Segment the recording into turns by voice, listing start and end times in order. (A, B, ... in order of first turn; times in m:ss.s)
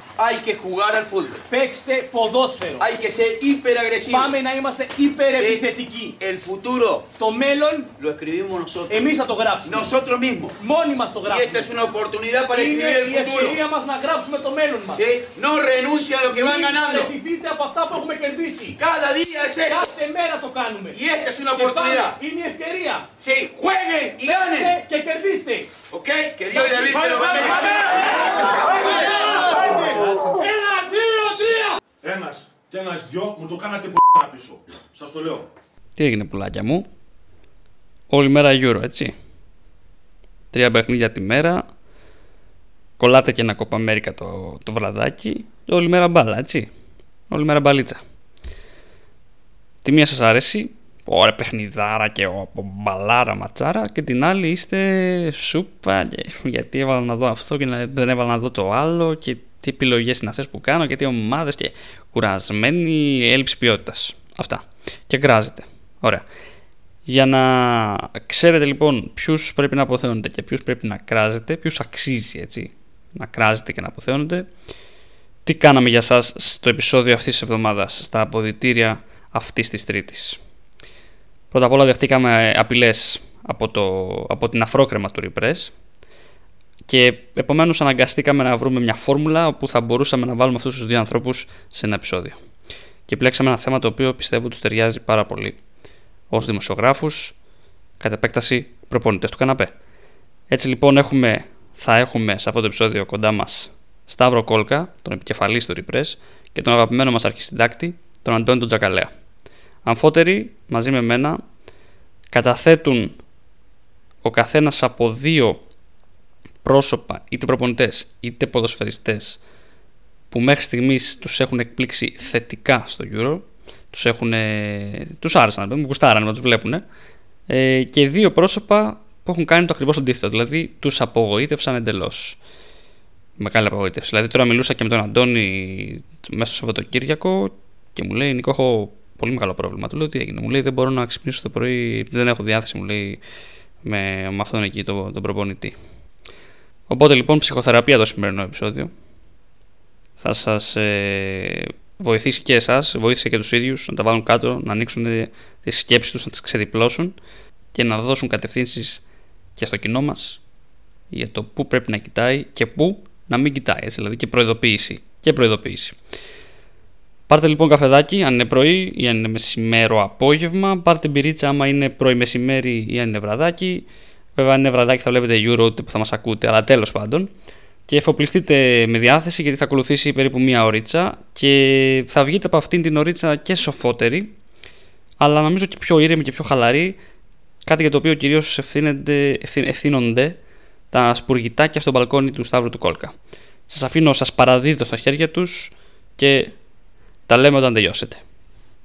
0:00.2-0:01.4 A
0:01.5-0:02.9 B
0:02.8-0:04.4 A
0:04.1-0:06.2 B
0:05.3-0:07.2 A
0:07.2-0:07.9 B
0:08.0-0:10.6 A
0:08.9-0:09.9 B
0:10.6-0:11.8 B
0:11.2-0:13.6 A
0:12.5-0:15.0 B
0:14.9-0:17.1 A
0:16.3-0:18.8 B
0:18.8-0:19.9 A
0:19.6-0:21.0 B
0:20.9-0:22.2 A
0:21.6-0:23.1 B
0:23.2-0:24.8 A
0:24.2-0:25.7 B
0:25.9-0:29.8 A
0:26.5-0:31.8 B
0:32.0-0:35.5 C
0:36.0-0:36.9 D
0:38.1-0:39.1 D
0:40.5-0:41.7 D
0:43.0-0:46.7 D
0:47.3-0:48.0 D
0:49.8-1:06.2 D
1:07.1-1:14.5 D
1:15.4-1:20.4 D
1:21.5-1:25.7 D
1:26.9-1:32.4 D
1:33.1-1:35.6 D
1:36.3-1:37.4 D
1:38.0-1:39.7 D
1:40.5-1:49.1 D
1:49.8-1:51.4 D
1:52.3-1:53.2 D
1:54.2-1:55.6 D
1:56.6-1:59.4 D
2:00.3-2:06.8 D
2:07.5-2:12.4 D
2:13.4-2:23.2 D
2:23.8-2:25.8 D
2:26.9-2:28.9 D
2:30.2-2:37.2 D
2:37.7-2:39.0 D
2:39.6-2:40.4 D
2:41.1-2:46.0 D
2:47.3-2:53.9 D
2:54.4-2:57.3 D
2:57.9-3:04.3 D
3:05.2-3:07.0 D
3:07.6-3:10.4 D
3:10.9-3:13.2 D
3:13.7-3:16.6 D
3:17.3-3:18.2 D